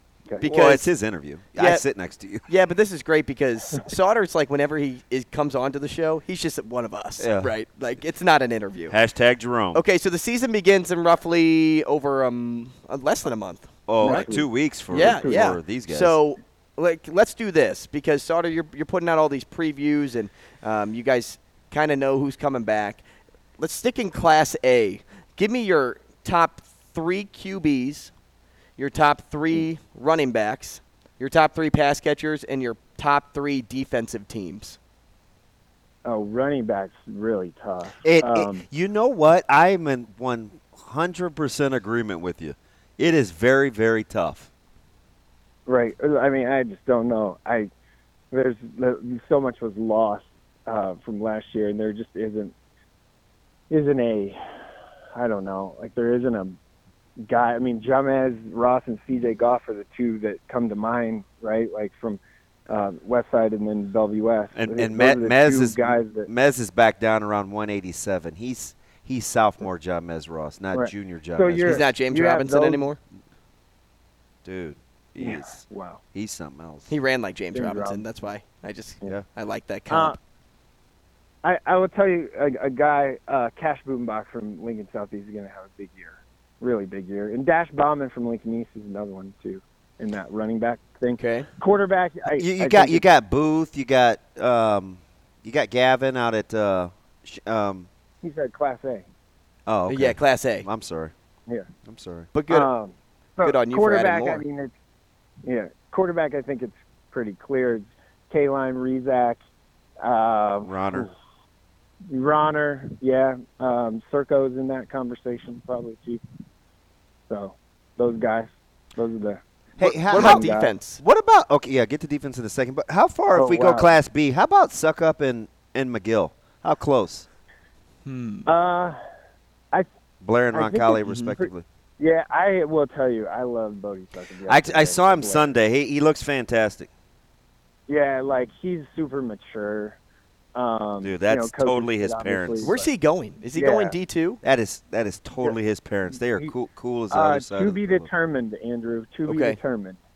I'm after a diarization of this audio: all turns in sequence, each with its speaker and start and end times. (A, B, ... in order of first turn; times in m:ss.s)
0:00.4-0:00.9 A
0:00.4-0:02.4 B
0:01.6-0:01.8 A
0:02.5-0:09.0 A
0:07.2-0:07.5 B
0:08.9-0:09.8 B
0:09.7-0:14.3 A
0:13.9-0:16.2 B
0:14.0-0:15.5 C
0:14.9-0:23.0 A
0:23.6-0:28.1 A
0:28.8-0:34.8 A
0:36.0-0:38.6 C
0:38.0-0:44.5 B
0:45.6-0:47.7 C
0:48.3-0:52.5 C
0:53.7-0:54.4 C
0:55.1-0:56.6 C
0:57.2-1:06.3 C
1:04.5-1:11.8 B
1:10.7-1:12.8 C
1:11.6-1:13.0 A
1:14.4-1:16.9 B
1:15.2-1:16.0 C
1:16.9-1:20.2 A
1:17.5-1:18.0 C
1:19.9-1:20.2 C
1:21.4-1:33.0 C
1:31.2-1:31.5 A
1:32.3-1:37.9 B
1:38.2-1:39.1 C
1:39.7-1:41.1 B
1:39.9-1:40.7 A
1:41.8-1:42.3 B
1:42.3-1:42.7 A
1:42.5-1:44.7 C
1:43.4-1:44.4 A
1:45.4-1:49.4 C
1:50.0-1:51.1 C
1:50.6-1:51.1 B
1:52.1-1:56.2 C
1:57.3-1:59.4 C
1:59.8-2:07.3 B
1:59.8-2:01.0 A
2:00.1-2:00.7 C
2:03.3-2:04.0 C
2:08.0-2:08.5 A
2:08.4-2:09.0 C
2:10.2-2:11.6 B
2:10.5-2:15.5 C
2:11.1-2:11.3 A
2:14.5-2:16.9 B
2:17.9-2:20.0 C
2:20.5-2:22.9 C
2:21.0-2:22.7 B
2:22.6-2:24.4 A
2:23.6-2:23.9 C
2:24.4-2:28.1 B
2:27.1-2:30.0 C
2:29.3-2:29.6 A